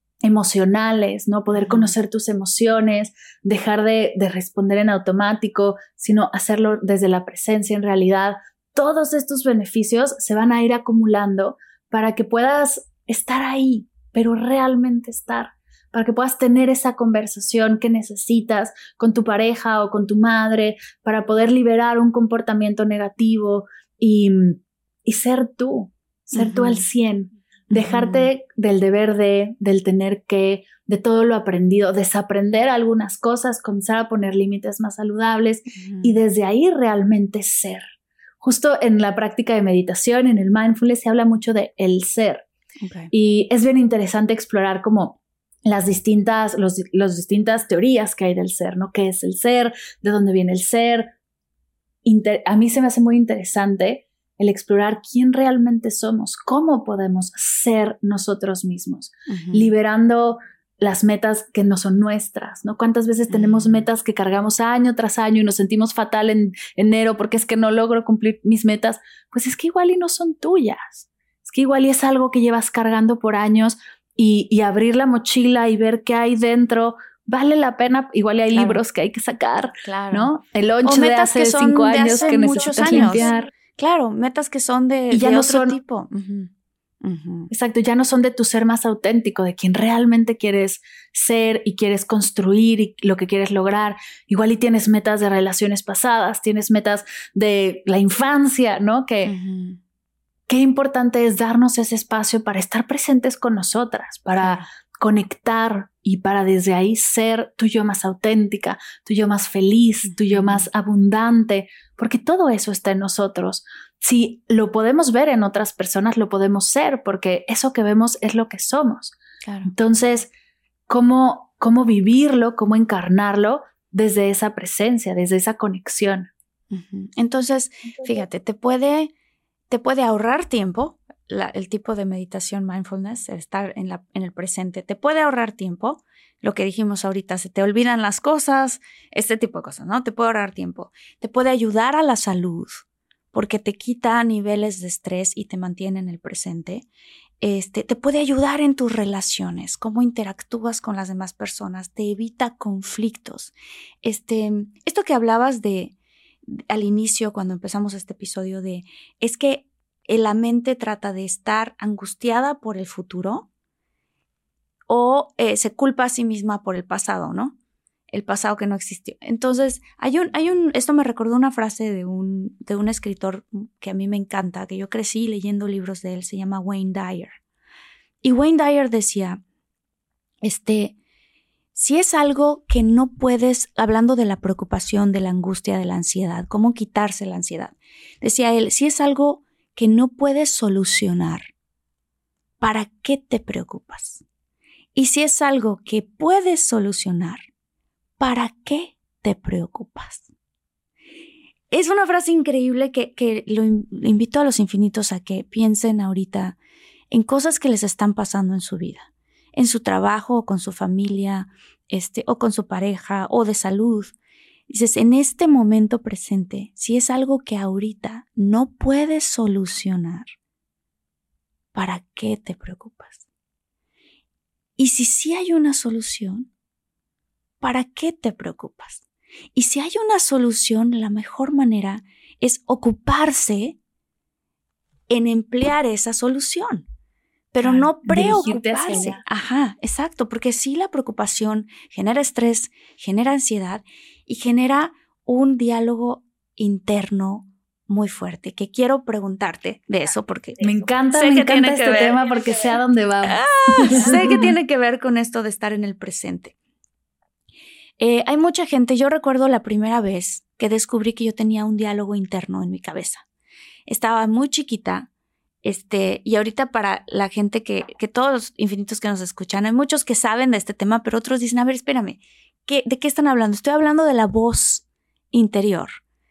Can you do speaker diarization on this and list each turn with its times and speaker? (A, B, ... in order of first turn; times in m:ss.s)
0:00.2-0:37.9 A
0:01.6-0:01.9 B
0:26.4-0:26.9 B
0:27.7-0:28.3 B
0:35.8-0:36.2 B
0:38.4-0:42.4 A
0:42.8-0:43.1 B
0:43.1-0:51.1 A
0:52.0-1:23.5 A
0:59.3-0:59.7 B
1:03.3-1:03.8 B
1:18.5-1:18.8 B
1:19.8-1:20.3 B
1:20.8-1:26.5 B
1:25.1-1:25.8 A
1:27.0-1:27.5 B
1:27.5-1:39.3 A
1:39.2-1:39.8 B
1:40.5-2:00.3 A
1:44.4-1:44.6 B
1:50.1-1:50.7 B
1:59.4-1:59.7 B
2:00.9-2:06.3 A
2:06.7-2:09.1 B
2:09.7-2:26.9 B
2:27.4-2:33.5 B
2:34.0-2:35.9 B
2:36.5-2:43.5 B
2:44.9-2:47.6 B
2:48.1-2:57.4 B
2:58.2-2:59.4 B
3:00.4-3:01.0 B
3:01.8-3:11.5 B
3:12.6-3:14.2 B
3:15.0-3:17.4 B
3:18.2-3:20.3 B
3:21.7-3:26.6 B
3:27.1-3:34.1 B
3:34.7-3:40.3 B
3:41.7-3:43.2 B
3:44.8-3:46.5 B
3:47.6-3:49.0 B
3:49.6-3:53.8 B
3:55.1-3:56.9 B
3:57.5-4:12.6 B
3:57.6-3:59.2 A
4:10.6-4:14.5 A
4:13.2-4:16.6 B
4:18.0-4:23.2 B
4:23.9-4:25.1 B
4:25.6-4:36.0 B